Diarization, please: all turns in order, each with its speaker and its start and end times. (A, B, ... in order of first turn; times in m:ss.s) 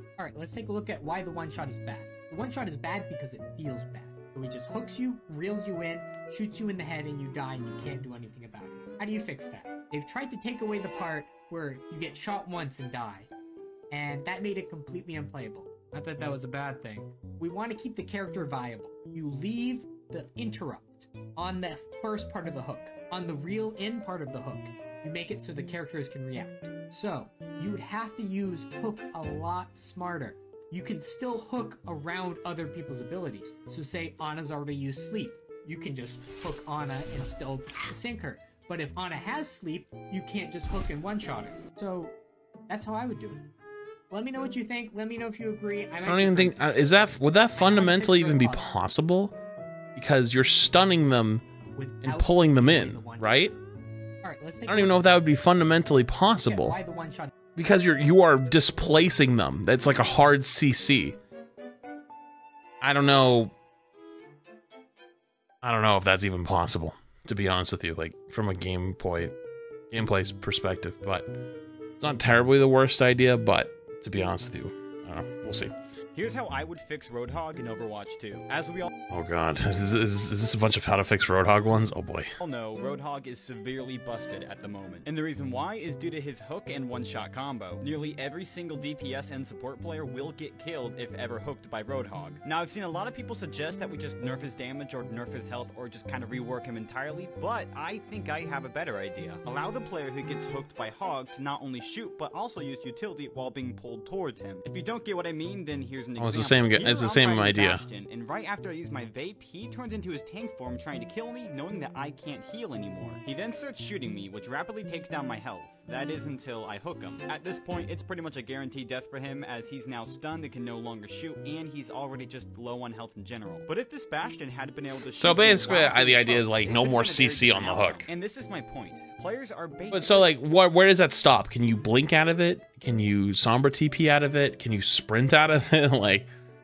0:00.2-0:13.3 A
0:13.9-0:42.2 A
0:42.7-0:43.5 A
0:44.1-0:48.7 A
0:46.1-0:49.4 B
0:50.0-0:51.4 B
0:51.8-0:53.5 A
0:52.0-0:53.6 B
0:54.2-0:55.1 A
0:54.7-0:56.8 B
0:56.4-0:57.3 A
0:57.6-1:01.2 B
1:02.8-1:03.5 B
1:05.6-1:09.3 B
1:09.9-1:11.3 B
1:12.0-1:15.7 B
1:16.1-1:18.9 C
1:19.1-1:22.3 B
1:22.4-2:10.3 C
1:46.2-1:47.8 B
2:05.2-2:08.1 B
2:09.9-2:16.3 B